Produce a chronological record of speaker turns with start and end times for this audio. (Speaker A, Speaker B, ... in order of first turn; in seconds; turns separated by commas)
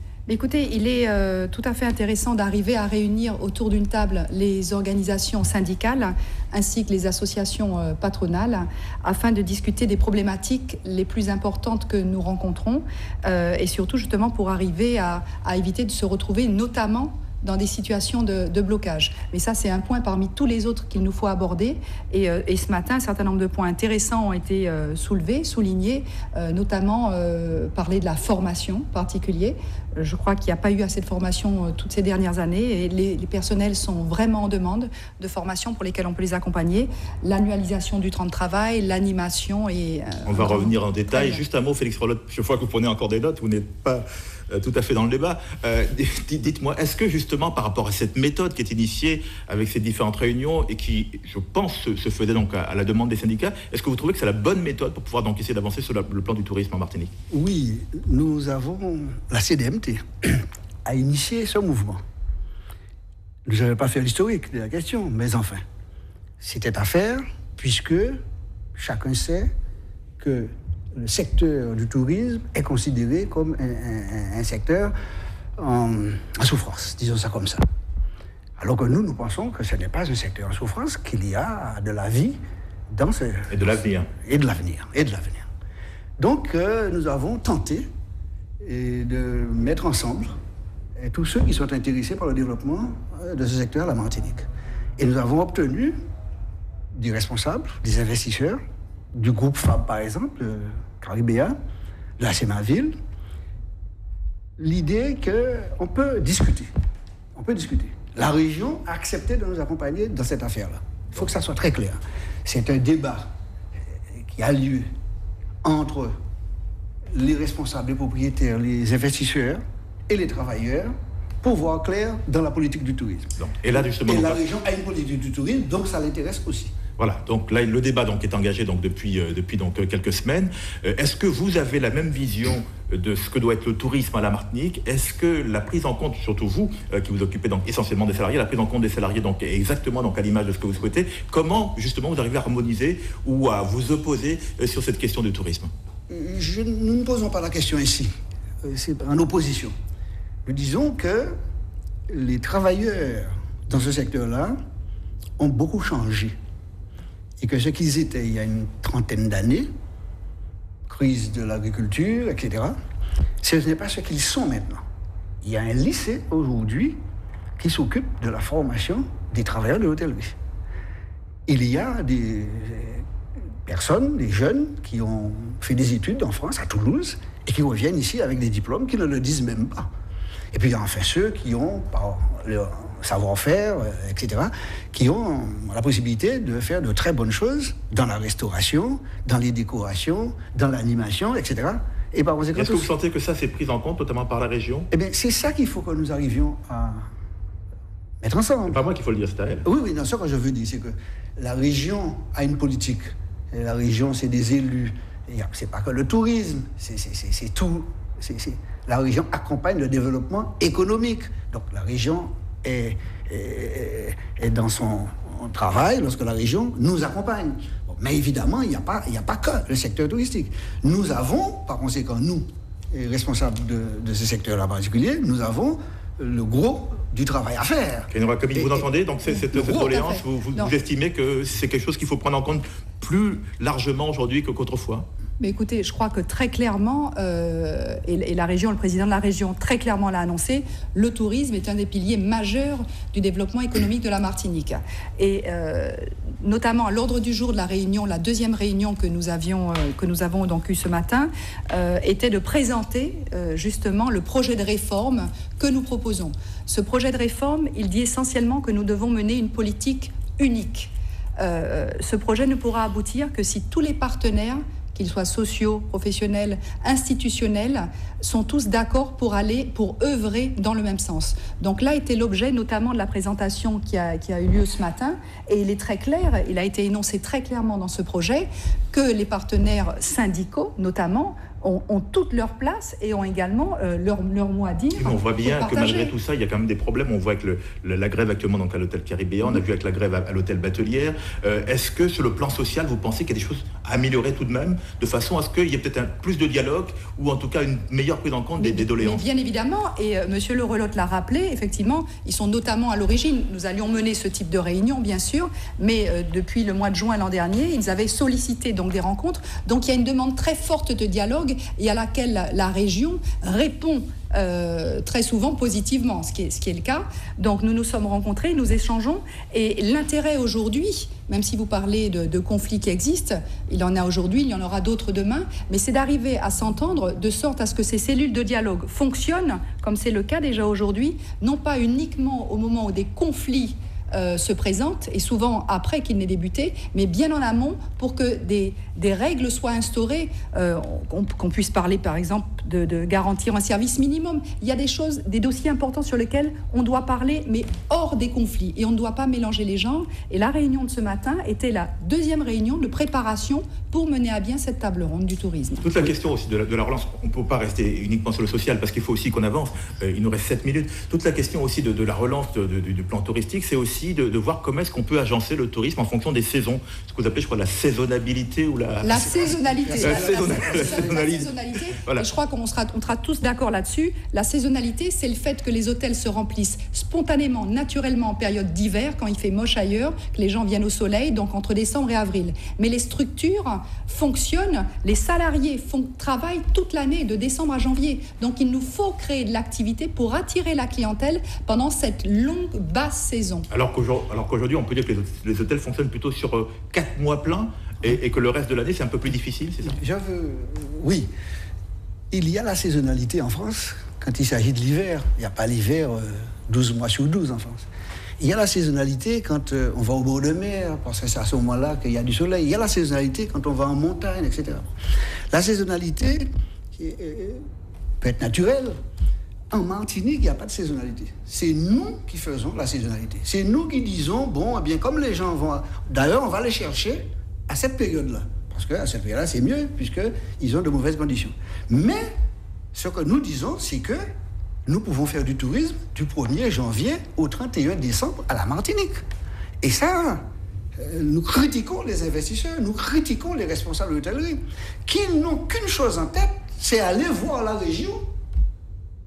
Speaker A: 0.3-41.4, Speaker B: 40.2-57.1, Speaker C: 57.3-62.0, Speaker C: 63.5-65.6, Speaker C: 66.4-68.2, Speaker C: 68.8-69.5, Speaker C: 70.2-74.9, Speaker C: 75.6-77.6, Speaker C: 78.6-82.4, Speaker C: 82.9-85.5, Speaker B: 83.5-84.1, Speaker C: 86.2-87.8, Speaker C: 88.6-90.3, Speaker C: 91.0-94.4, Speaker C: 95.0-96.0, Speaker C: 96.9-98.6, Speaker C: 99.1-101.5, Speaker C: 102.2-102.9, Speaker C: 104.6-106.7, Speaker C: 107.3-113.3, Speaker C: 114.1-114.9, Speaker C: 115.6-116.1, Speaker C: 117.1-120.9, Speaker C: 121.4-123.3, Speaker B: 123.4-124.4, Speaker C: 124.0-126.7, Speaker B: 127.0-145.7, Speaker C: 146.1-148.1, Speaker C: 148.6-149.7, Speaker C: 150.4-151.3, Speaker C: 152.1-154.6, Speaker C: 155.4-156.3, Speaker C: 157.4-159.7, Speaker C: 160.9-162.8, Speaker C: 163.4-164.8, Speaker C: 165.4-167.0, Speaker C: 167.6-170.3, Speaker C: 171.5-173.0, Speaker C: 173.7-179.9, Speaker C: 180.5-192.9, Speaker B: 192.5-194.9, Speaker C: 194.9-197.0, Speaker C: 198.2-198.8, Speaker B: 198.7-199.6, Speaker C: 199.6-228.8, Speaker B: 228.1-235.1, Speaker A: 229.3-230.7, Speaker A: 235.4-286.1, Speaker B: 284.9-299.2, Speaker A: 298.6-355.9, Speaker B: 355.8-369.2, Speaker A: 369.0-393.7, Speaker C: 369.1-371.4, Speaker B: 370.0-372.3, Speaker B: 393.7-400.0, Speaker C: 399.8-401.3, Speaker C: 402.3-407.9, Speaker C: 408.4-414.9, Speaker C: 415.5-417.6, Speaker C: 418.2-418.9, Speaker C: 419.7-432.3, Speaker C: 432.9-434.2, Speaker C: 434.9-439.2, Speaker C: 439.8-440.4, Speaker C: 440.9-448.2